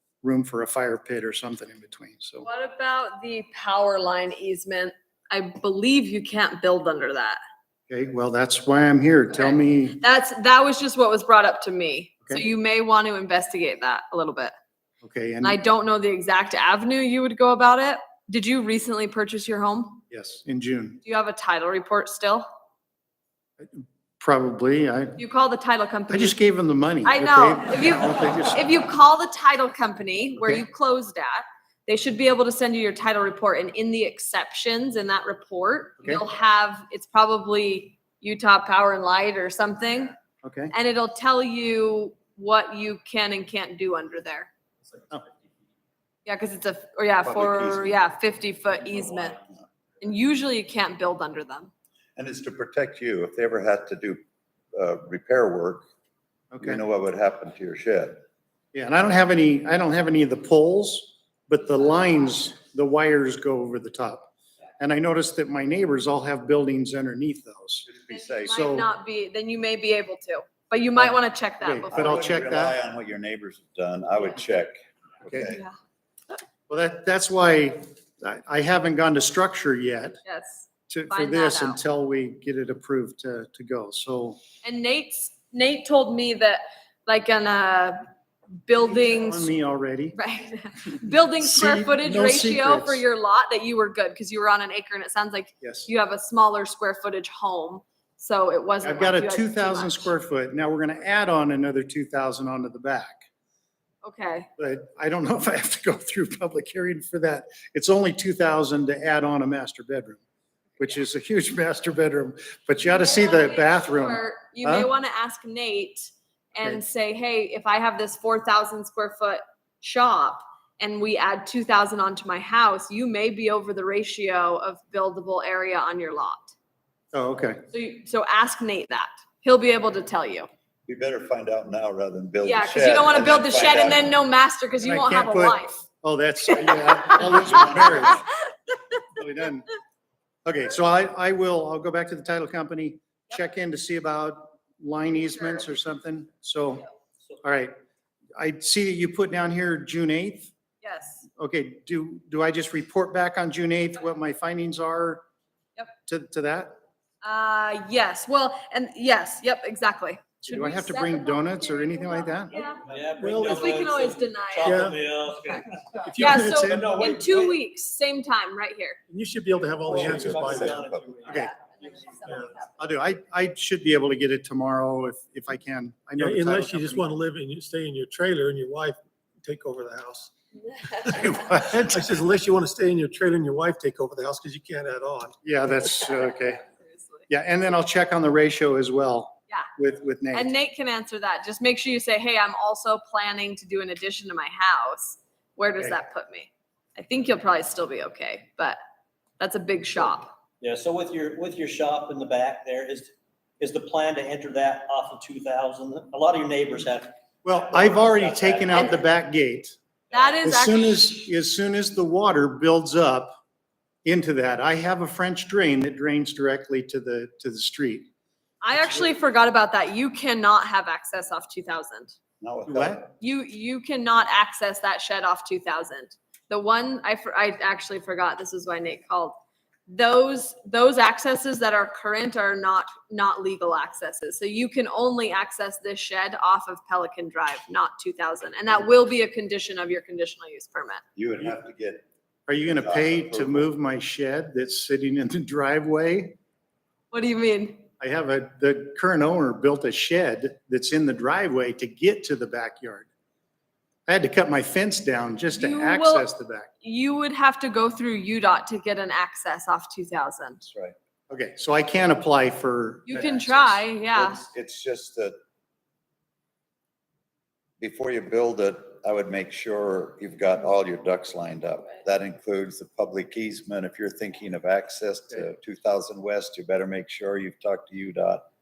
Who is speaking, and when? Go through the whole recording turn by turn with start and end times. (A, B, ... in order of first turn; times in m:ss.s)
0:00.2-0:02.4 A
0:02.4-0:07.4 B
0:07.9-0:10.0 A
0:09.3-0:14.5 B
0:15.0-0:15.6 A
0:15.4-0:20.0 B
0:20.1-0:21.0 A
0:21.0-0:22.5 B
0:23.6-0:25.2 A
0:25.2-0:26.4 B
0:26.1-0:28.7 A
0:27.0-0:40.1 B
0:40.4-0:40.7 A
0:40.7-0:44.5 B
0:46.2-0:49.4 B
0:47.2-0:48.0 C
0:50.0-0:51.7 B
0:52.2-0:54.2 C
0:54.7-0:55.8 C
0:56.5-0:56.8 A
0:56.6-0:58.2 C
0:58.7-1:07.8 A
1:07.8-1:08.6 C
1:08.1-1:12.3 B
1:08.5-1:08.9 A
1:11.0-1:12.8 A
1:11.9-1:15.6 C
1:15.3-1:15.5 A
1:15.3-1:15.8 B
1:16.7-1:20.2 A
1:20.2-1:21.8 B
1:20.9-1:24.4 A
1:24.6-1:28.0 B
1:28.7-1:29.5 B
1:28.9-1:30.2 A
1:30.1-1:40.1 B
1:31.4-1:33.0 A
1:35.6-1:35.9 A
1:38.8-1:43.2 A
1:44.0-1:44.5 B
1:44.6-1:50.2 A
1:50.8-1:54.9 A
1:52.8-2:06.5 B
2:07.1-2:07.6 A
2:07.7-2:10.5 B
2:10.9-2:14.1 C
2:12.4-2:15.8 B
2:14.8-2:18.2 A
2:17.1-2:18.2 C
2:19.1-2:19.6 A
2:20.4-2:26.8 A
2:27.4-2:27.7 A
2:28.4-2:30.5 A
2:30.8-2:31.2 B
2:31.4-2:35.2 A
2:36.0-2:36.8 A
2:37.2-2:42.8 B
2:40.4-2:42.6 A
2:42.9-2:45.9 D
2:43.2-2:43.7 A
2:43.2-2:43.5 E
2:43.4-2:44.8 B
2:44.6-2:45.0 E
2:46.0-2:46.4 E
2:46.1-2:46.9 A
2:46.2-2:49.0 B
2:46.5-2:47.6 D
2:49.1-2:50.8 E
2:49.8-2:51.2 C
2:49.9-2:51.4 D
2:51.3-2:52.9 B
2:51.3-2:51.5 A
2:52.8-2:57.1 A
2:56.2-3:00.3 E
3:01.0-3:05.4 E
3:01.1-3:02.0 A
3:05.4-3:06.6 A
3:06.6-3:07.2 B
3:07.3-3:10.5 A
3:10.3-3:18.8 B
3:19.4-3:20.3 B
3:20.6-3:28.9 D
3:27.4-3:29.7 A
3:30.1-3:30.4 D
3:30.1-3:31.2 B
3:30.4-3:33.3 A
3:34.0-3:38.1 A
3:38.6-3:42.1 B
3:42.4-3:43.1 C
3:42.7-3:43.0 A
3:43.2-4:01.0 B
4:01.2-4:02.0 C
4:02.5-4:06.4 A
4:02.6-4:03.7 C
4:07.1-4:07.8 B
4:08.0-4:13.1 A
4:14.1-4:16.7 A
4:15.5-4:16.3 B
4:16.8-4:20.6 B
4:20.7-4:20.9 C
4:21.3-4:23.8 A
4:23.1-4:24.4 B
4:24.1-4:25.4 C
4:27.8-4:38.4 C